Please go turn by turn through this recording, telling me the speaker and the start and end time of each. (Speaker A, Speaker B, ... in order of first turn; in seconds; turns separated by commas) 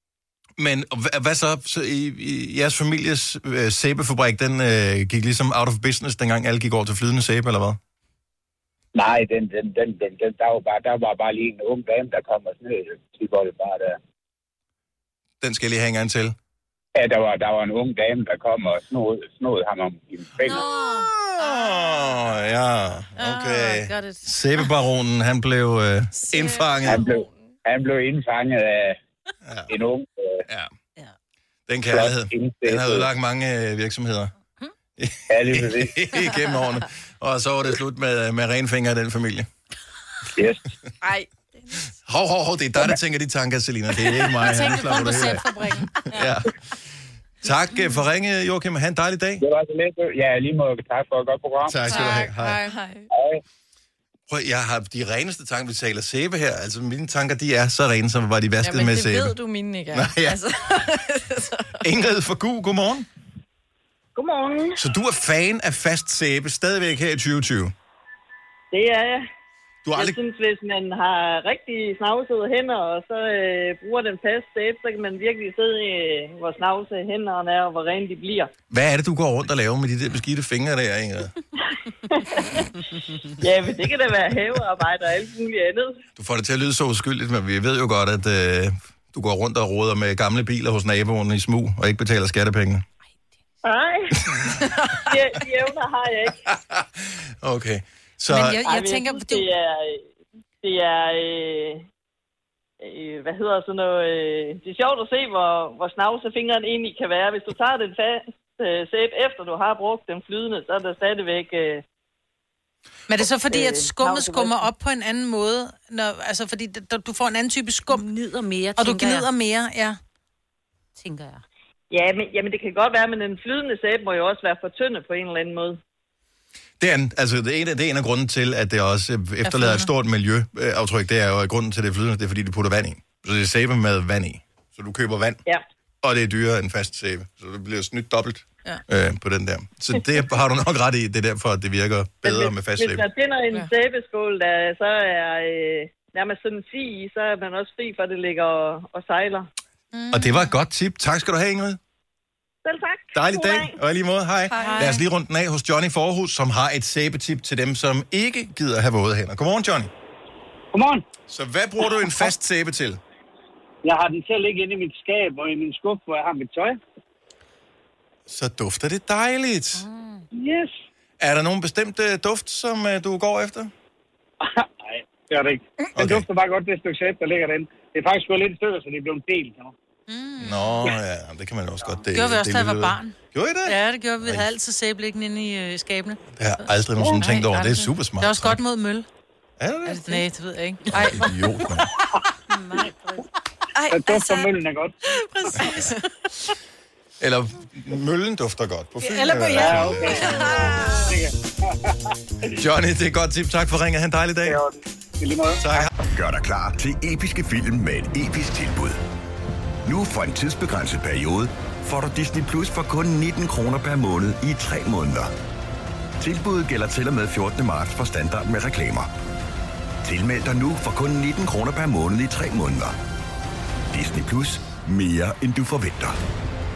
Speaker A: 0.6-7.8, Speaker B: 8.9-14.0, Speaker A: 15.4-16.4, Speaker B: 16.9-20.7, Speaker A: 21.0-27.1, Speaker C: 23.2-24.2, Speaker D: 26.2-27.5, Speaker B: 26.9-29.0, Speaker A: 29.4-29.7, Speaker B: 29.7-30.4, Speaker A: 30.5-30.7, Speaker A: 31.7-34.3, Speaker B: 31.9-33.1, Speaker A: 35.0-39.5, Speaker B: 35.3-36.0, Speaker B: 40.4-40.6, Speaker D: 41.0-41.3, Speaker A: 42.0-46.5, Speaker C: 44.2-46.2, Speaker A: 47.4-49.4, Speaker B: 49.4-52.0, Speaker A: 51.7-52.6, Speaker D: 51.9-53.1, Speaker B: 53.1-53.4, Speaker A: 54.3-59.4, Speaker D: 58.6-61.9, Speaker A: 59.9-60.4, Speaker A: 61.8-63.1, Speaker E: 64.2-64.8, Speaker A: 64.8-67.7, Speaker E: 68.7-69.2, Speaker A: 69.8-70.2, Speaker E: 70.0-78.5, Speaker A: 78.7-81.3, Speaker E: 82.1-82.6, Speaker E: 83.4-86.0, Speaker A: 86.2-92.8, Speaker E: 93.6-94.2, Speaker A: 94.3-94.7, Speaker E: 95.0-96.4, Speaker A: 96.5-98.6, Speaker C: 98.3-99.5, Speaker E: 98.6-100.0, Speaker E: 100.6-101.8, Speaker E: 102.8-111.8, Speaker C: 113.1-118.0, Speaker E: 113.5-114.6, Speaker F: 117.9-119.3, Speaker C: 118.8-120.0, Speaker F: 121.0-121.4, Speaker E: 121.9-125.8, Speaker A: 126.8-135.4, Speaker C: 129.4-129.9, Speaker A: 136.0-143.1, Speaker E: 142.2-149.5, Speaker C: 149.9-150.5, Speaker A: 150.1-151.8, Speaker E: 152.7-153.7, Speaker A: 153.1-159.9, Speaker D: 154.5-154.9, Speaker C: 154.6-155.0, Speaker G: 160.7-161.1, Speaker A: 161.3-163.0, Speaker G: 163.8-166.8, Speaker A: 168.3-169.8, Speaker F: 169.8-170.3, Speaker G: 170.3-170.8, Speaker A: 171.2-173.7, Speaker G: 174.4-179.7, Speaker A: 176.0-176.2, Speaker C: 180.1-180.9, Speaker A: 180.4-184.5, Speaker C: 182.1-183.2, Speaker C: 183.7-186.2, Speaker A: 186.4-188.6, Speaker C: 187.2-189.1, Speaker A: 189.6-190.1, Speaker C: 189.9-191.3, Speaker A: 190.9-191.9, Speaker F: 192.5-193.3, Speaker D: 193.8-194.5, Speaker G: 193.9-194.9, Speaker C: 195.3-195.9, Speaker D: 195.6-196.0, Speaker A: 197.2-200.7, Speaker C: 199.0-200.0, Speaker G: 199.6-200.3, Speaker D: 200.3-201.0, Speaker G: 200.9-201.3, Speaker A: 202.6-204.6, Speaker G: 204.5-205.6, Speaker A: 205.6-205.9, Speaker H: 206.1-209.0, Speaker H: 209.8-215.3, Speaker H: 216.2-219.1, Speaker H: 220.0-222.9, Speaker H: 223.9-226.2